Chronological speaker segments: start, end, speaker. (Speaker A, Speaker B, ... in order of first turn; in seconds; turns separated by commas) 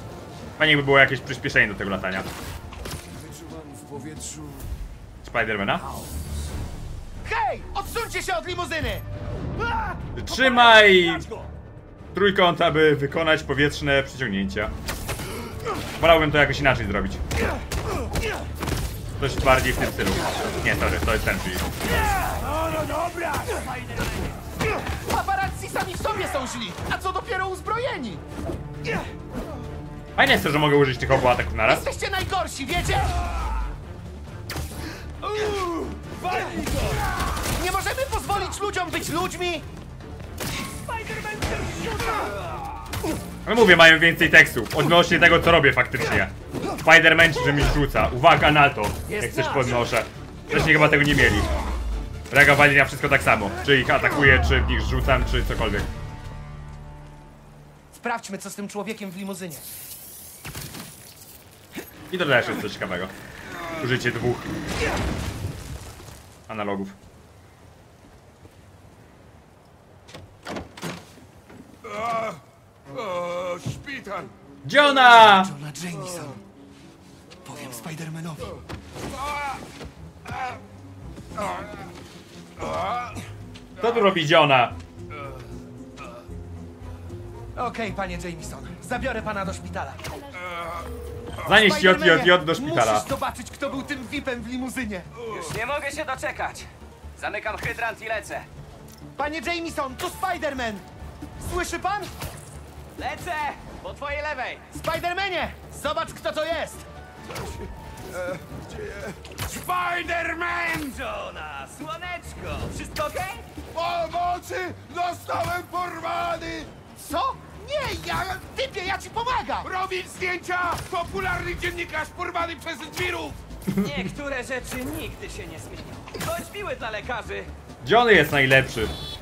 Speaker A: 0.6-2.3, Speaker B: 3.3-4.1, Speaker A: 5.2-5.8, Speaker C: 7.2-9.1, Speaker A: 10.1-11.2, Speaker A: 12.1-14.7, Speaker A: 16.0-17.2, Speaker A: 19.2-21.7, Speaker B: 22.3-23.4, Speaker C: 25.1-28.2, Speaker A: 30.1-31.9, Speaker C: 31.7-33.1, Speaker B: 35.3-37.0, Speaker C: 37.5-39.6, Speaker A: 43.4-51.5, Speaker A: 52.3-55.9, Speaker C: 57.9-59.6, Speaker A: 62.1-63.1, Speaker A: 63.8-64.5, Speaker A: 66.5-67.0, Speaker B: 71.9-72.3, Speaker B: 72.9-74.3, Speaker A: 74.6-75.5, Speaker C: 75.0-76.4, Speaker C: 77.4-78.4, Speaker B: 79.1-79.6, Speaker B: 81.4-81.7, Speaker B: 82.6-83.1, Speaker A: 83.8-84.8, Speaker C: 87.5-90.0, Speaker A: 91.4-93.1, Speaker C: 91.5-95.1, Speaker B: 95.2-95.5, Speaker D: 95.3-98.5, Speaker C: 99.2-100.9, Speaker C: 101.4-102.1, Speaker D: 103.0-104.7, Speaker C: 104.7-106.8, Speaker B: 108.1-111.0, Speaker D: 111.0-113.5, Speaker B: 113.7-116.7, Speaker C: 117.0-119.7, Speaker B: 119.6-123.3, Speaker A: 123.7-124.1, Speaker D: 123.8-127.5, Speaker A: 127.8-128.9